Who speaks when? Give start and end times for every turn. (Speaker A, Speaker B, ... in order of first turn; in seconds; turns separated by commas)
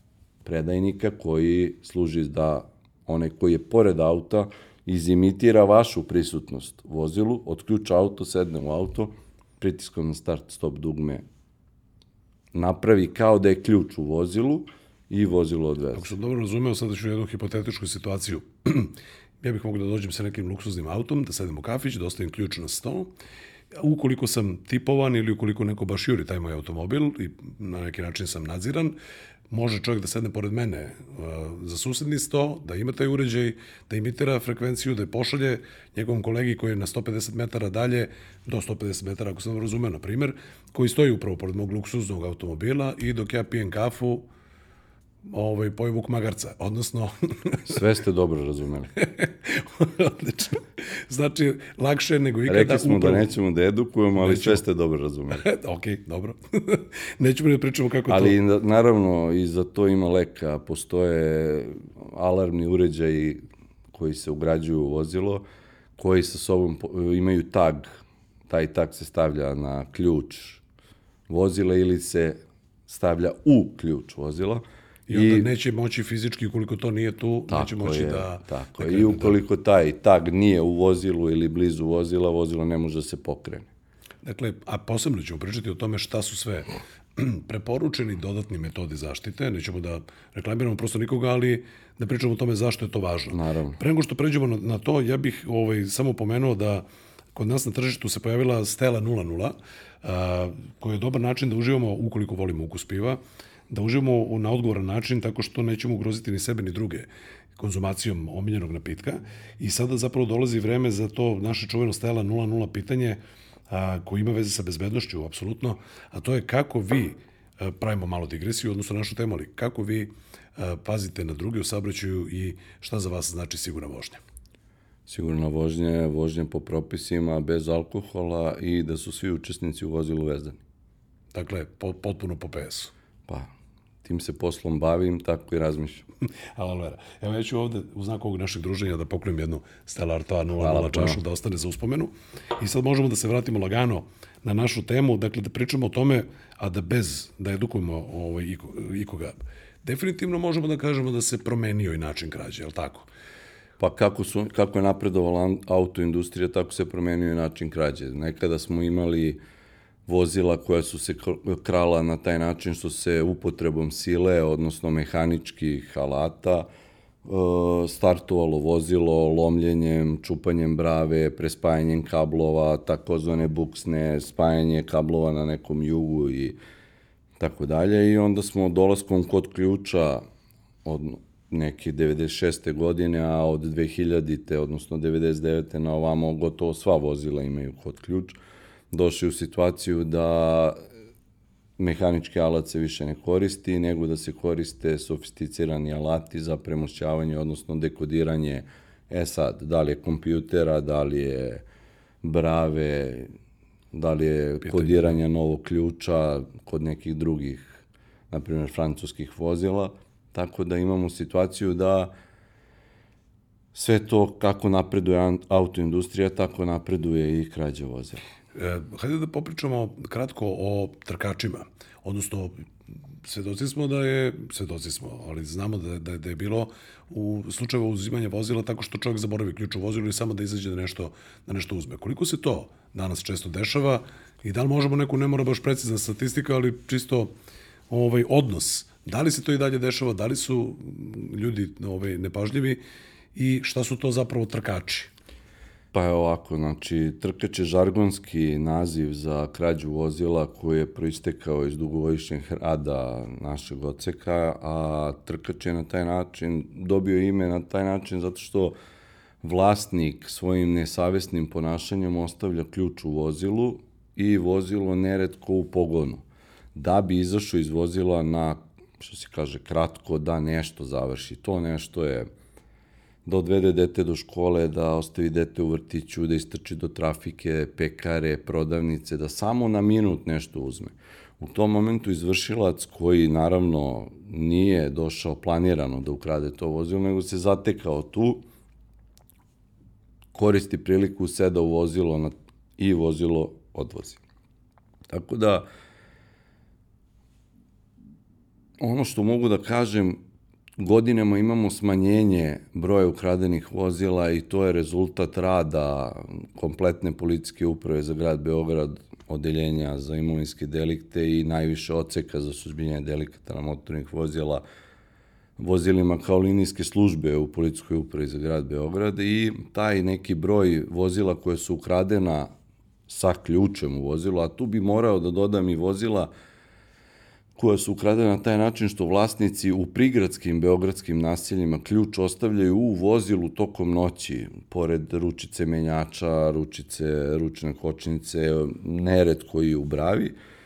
Speaker A: 0.4-11.2, Speaker A: 12.5-16.1, Speaker B: 15.9-23.1, Speaker B: 23.8-28.9, Speaker B: 29.5-44.2, Speaker B: 45.3-47.8, Speaker A: 47.6-48.9, Speaker B: 49.0-53.3, Speaker A: 52.5-55.4, Speaker B: 54.1-54.6, Speaker B: 55.3-58.4, Speaker A: 58.1-65.4, Speaker A: 66.0-68.0, Speaker A: 68.5-70.6, Speaker A: 71.3-75.5, Speaker B: 75.1-79.4, Speaker A: 77.5-83.7, Speaker B: 84.2-107.1, Speaker A: 93.3-93.8, Speaker B: 107.6-124.2, Speaker A: 125.1-130.6, Speaker B: 131.3-132.9, Speaker A: 134.0-136.1, Speaker B: 136.6-153.1, Speaker A: 140.6-141.2, Speaker A: 153.8-159.4, Speaker A: 160.1-166.7, Speaker A: 167.2-176.6, Speaker A: 177.4-180.2, Speaker A: 180.8-188.4, Speaker A: 188.9-190.8, Speaker A: 191.8-201.6, Speaker A: 202.2-203.3, Speaker A: 203.9-212.1, Speaker B: 204.7-205.0, Speaker A: 213.7-218.2, Speaker B: 218.5-222.6, Speaker B: 223.2-237.3, Speaker B: 237.9-242.8, Speaker B: 243.3-245.1, Speaker A: 245.9-258.7, Speaker A: 259.4-266.2, Speaker A: 266.7-272.3, Speaker A: 273.2-288.4, Speaker A: 290.3-294.2, Speaker A: 295.1-295.6, Speaker A: 298.8-300.2, Speaker A: 300.8-314.6, Speaker A: 315.6-322.5, Speaker A: 323.1-326.3, Speaker A: 327.6-340.3